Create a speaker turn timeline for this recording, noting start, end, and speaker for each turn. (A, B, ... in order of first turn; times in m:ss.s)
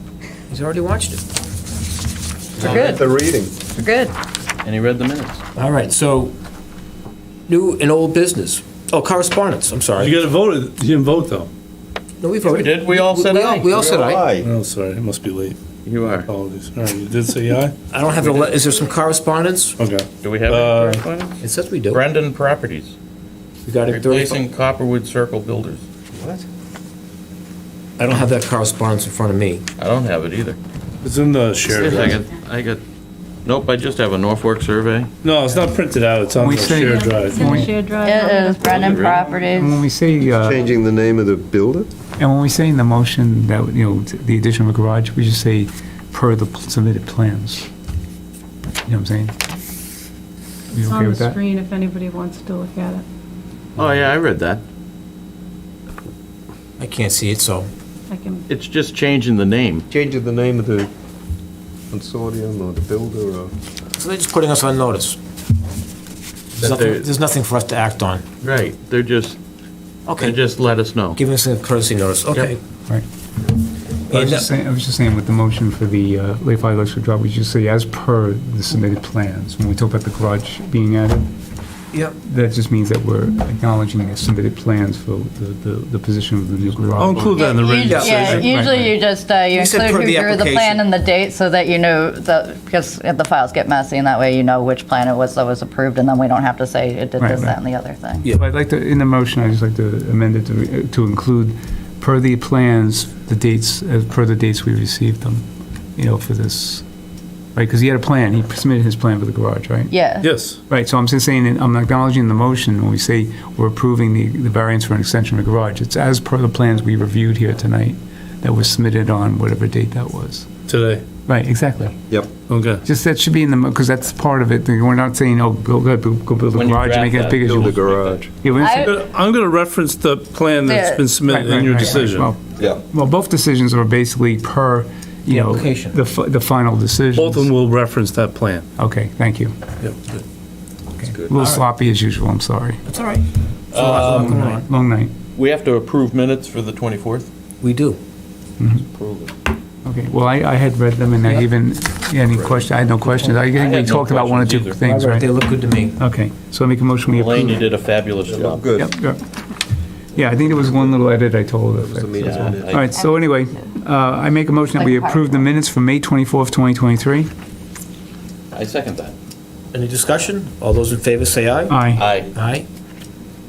0:00.5-0:01.2 A
0:02.6-0:03.6 B
0:02.6-0:03.0 C
0:02.6-0:03.0 D
0:03.7-0:04.1 C
0:04.6-0:05.4 D
0:05.6-0:06.3 A
0:07.5-0:10.2 A
0:10.0-0:11.5 E
0:12.2-0:14.3 A
0:12.4-0:13.7 D
0:13.7-0:14.5 B
0:14.4-0:15.6 E
0:15.8-0:16.3 D
0:16.3-0:17.7 E
0:17.9-0:19.8 A
0:19.8-0:21.0 E
0:20.2-0:21.3 D
0:21.4-0:22.0 A
0:21.9-0:22.9 D
0:23.6-0:24.4 A
0:23.9-0:25.8 D
0:26.1-0:26.4 B
0:28.0-0:29.6 A
0:29.8-0:30.6 D
0:31.0-0:32.2 E
0:31.7-0:32.8 D
0:33.4-0:35.1 D
0:35.2-0:37.7 E
0:36.4-0:37.8 F
0:36.7-0:39.8 G
0:37.9-0:39.8 C
0:38.8-0:39.2 D
0:39.5-0:40.6 F
0:40.3-0:41.9 B
0:42.2-0:47.7 F
0:48.8-0:49.3 F
0:50.7-0:51.4 F
0:50.7-0:53.0 G
0:53.8-0:54.6 D
0:56.8-0:57.7 A
0:58.1-0:58.4 G
0:58.5-0:59.8 D
0:59.9-1:00.9 B
1:01.9-1:03.5 B
1:04.0-1:05.2 A
1:06.6-1:08.2 A
1:06.6-1:07.1 D
1:08.4-1:09.4 D
1:10.1-1:10.4 A
1:10.2-1:11.2 D
1:11.1-1:12.6 A
1:14.1-1:14.5 A
1:14.1-1:21.3 F
1:22.2-1:27.5 F
1:27.0-1:28.5 E
1:27.3-1:38.3 C
1:27.8-1:28.3 A
1:28.3-1:29.0 F
1:29.5-1:30.8 A
1:37.2-1:37.6 F
1:38.3-1:45.4 F
1:46.0-1:46.8 F
1:47.5-1:50.0 F
1:49.9-1:50.3 C
1:50.2-1:50.6 E
1:50.7-2:00.5 F
2:00.7-2:01.0 E
2:01.2-2:02.0 F
2:02.5-2:02.8 E
2:02.8-2:07.8 F
2:06.5-2:08.2 D
2:07.4-2:08.3 B
2:08.4-2:09.0 F
2:08.6-2:09.0 C
2:08.8-2:12.3 E
2:10.6-2:11.2 C
2:11.2-2:17.6 F
2:15.3-2:16.0 A
2:17.2-2:18.6 E
2:18.8-2:19.6 F
2:21.0-2:22.8 F
2:21.3-2:21.6 A
2:22.8-2:24.7 A
2:23.7-2:24.5 D
2:24.2-2:25.1 F
2:25.4-2:27.3 D
2:27.6-2:28.0 A
2:28.6-2:28.8 F
2:28.8-2:29.3 D
2:29.8-2:35.3 F
2:32.3-2:34.8 D
2:33.0-2:33.3 A
2:34.8-2:36.0 A
2:36.0-2:37.5 F
2:37.1-2:38.8 D
2:38.2-2:38.9 B
2:38.8-2:39.2 F
2:40.1-2:47.3 F
2:40.4-2:41.0 B
2:41.8-2:42.9 B
2:42.2-2:42.9 D
2:42.9-2:43.5 C
2:44.7-2:45.4 C
2:48.5-2:49.1 D
2:49.7-2:52.6 A
2:51.7-2:52.1 F
2:51.9-2:52.3 D